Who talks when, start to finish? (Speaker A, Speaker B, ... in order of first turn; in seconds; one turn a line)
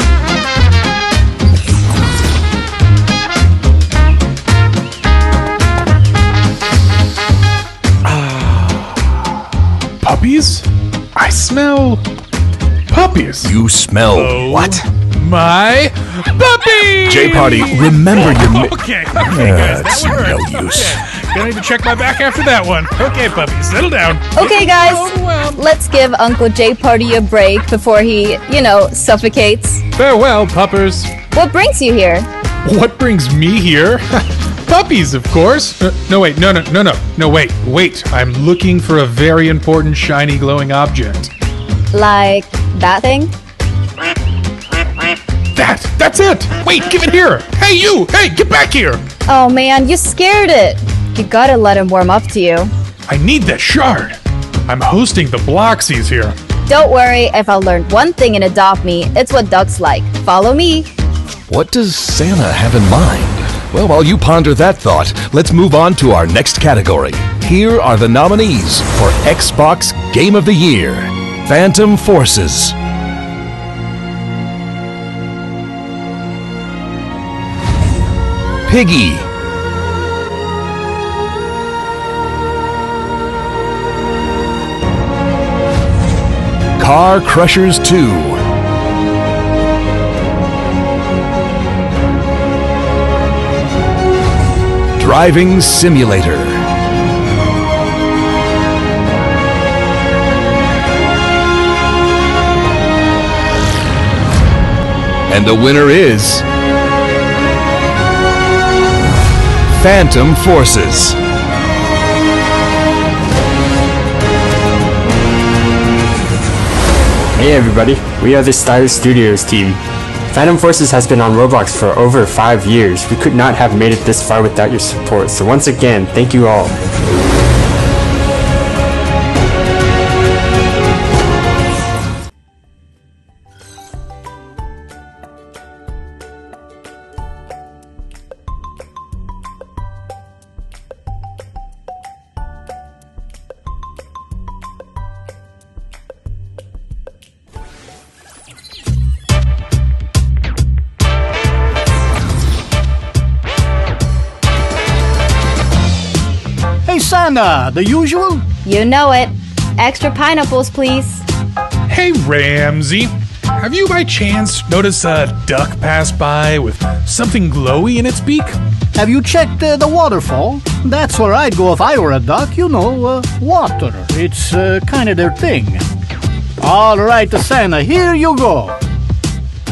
Speaker A: 10.0-12.0
Speaker A: 12.9-13.5
Speaker B: 13.4-14.8
Speaker A: 14.1-25.6
Speaker B: 17.1-21.0
Speaker C: 24.3-29.8
Speaker A: 29.9-31.1
Speaker C: 31.3-32.3
Speaker A: 32.6-41.3
Speaker C: 41.9-43.3
Speaker A: 45.5-49.0
Speaker C: 49.3-52.7
Speaker A: 53.1-56.4
Speaker C: 56.7-60.9
Speaker B: 61.5-72.7
Speaker B: 78.7-79.3
Speaker B: 86.8-88.4
Speaker B: 95.0-96.6
Speaker B: 105.3-106.4
Speaker B: 109.8-111.2
Speaker D: 117.4-119.8
Speaker D: 120.3-126.7
Speaker E: 156.8-158.4
Speaker C: 158.6-161.2
Speaker A: 161.9-168.6
Speaker E: 168.9-175.8
Speaker E: 176.6-178.8